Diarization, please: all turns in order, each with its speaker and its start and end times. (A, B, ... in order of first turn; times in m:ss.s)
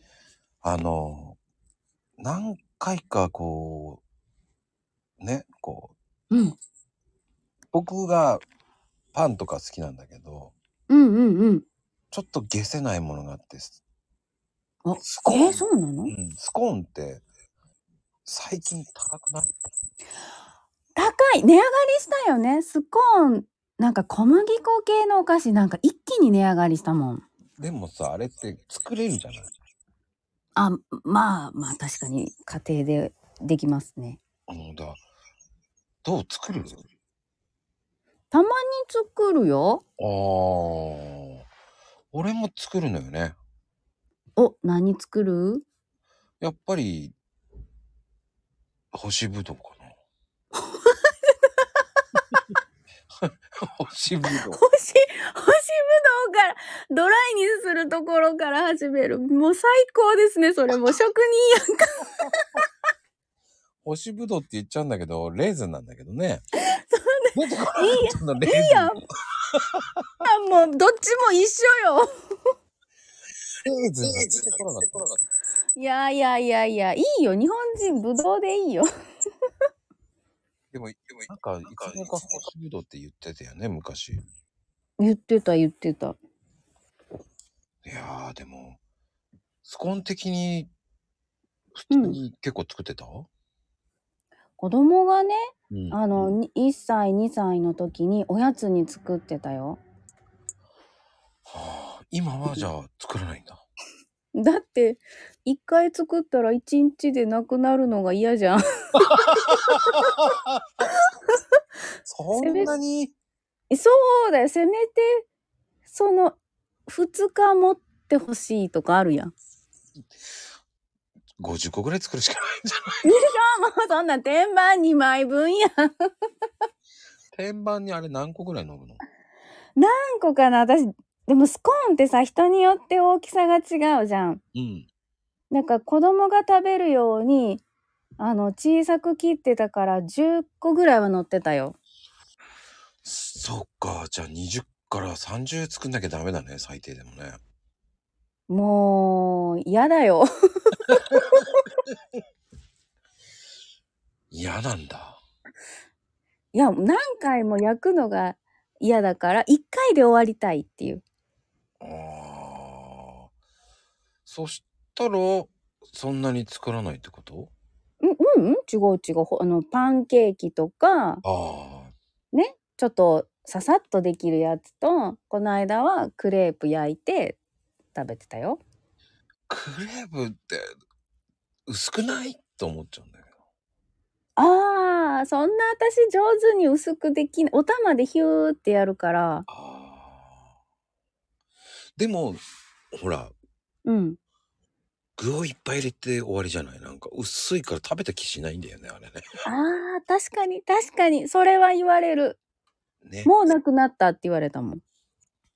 0:00.6-0:01.4 A
0:02.2-0:04.0 A
0:05.2-0:06.0 A
0:06.3-0:06.6 B
0:07.7-0:08.4 A
0:09.1-0:10.5 A
0:10.9-0:11.6 B
0:12.1-0:13.8 A
0:14.8-0:16.1 B
0:15.0-0:17.2 A
0:18.3-0:19.5 A
0:21.0-0:27.3 B
0:27.6-0:29.5 A
0:30.6-0:34.2 B
0:34.5-0:35.0 A
0:36.0-0:36.8 A
0:38.3-0:39.8 B
0:40.0-0:41.4 A
0:42.1-0:43.4 A
0:44.4-0:45.6 B
0:46.4-0:47.1 A
0:48.9-0:50.0 A
0:50.6-0:51.6 B
0:53.3-0:54.6 A
0:54.3-1:02.6 B
1:03.8-1:06.4 A
1:06.7-1:09.0 B
1:07.3-1:09.0 A
1:09.5-1:09.8 A
1:10.2-1:12.1 B
1:13.6-1:15.2 A
1:15.8-1:18.9 B
1:20.7-1:24.2 A
1:25.0-1:26.2 B
1:27.8-1:28.8 A
1:29.6-1:30.7 A
1:31.8-1:33.3 A
1:31.9-1:32.2 B
1:34.6-1:35.4 B
1:35.7-1:36.3 A
1:35.9-1:39.8 B
1:41.5-1:43.6 A
1:44.3-1:50.2 B
1:49.1-1:50.6 A
1:52.1-1:53.1 A
1:52.3-1:52.7 B
1:53.7-1:55.3 B
1:55.9-1:59.3 B
2:01.4-2:03.1 A
2:03.0-2:06.1 B
2:07.3-2:09.0 A
2:09.8-2:14.4 B
2:14.6-2:14.9 A
2:15.5-2:17.6 B
2:18.2-2:21.8 B
2:23.0-2:27.4 A
2:28.5-2:31.5 B
2:30.9-2:31.2 A
2:34.3-2:35.2 A
2:36.5-2:41.0 B
2:41.8-2:43.3 A
2:44.2-2:47.5 A
2:48.0-2:51.2 B
2:51.2-2:51.9 A
2:52.3-2:57.4 B
2:57.9-2:58.6 B
2:59.5-3:00.7 A
3:01.7-3:03.2 A
3:04.4-3:09.5 B
3:09.5-3:10.4 A
3:12.0-3:12.4 A
3:12.9-3:13.3 A
3:13.9-3:14.2 B
3:15.2-3:19.2 A
3:19.4-3:22.4 B
3:23.0-3:23.3 A
3:23.2-3:24.8 B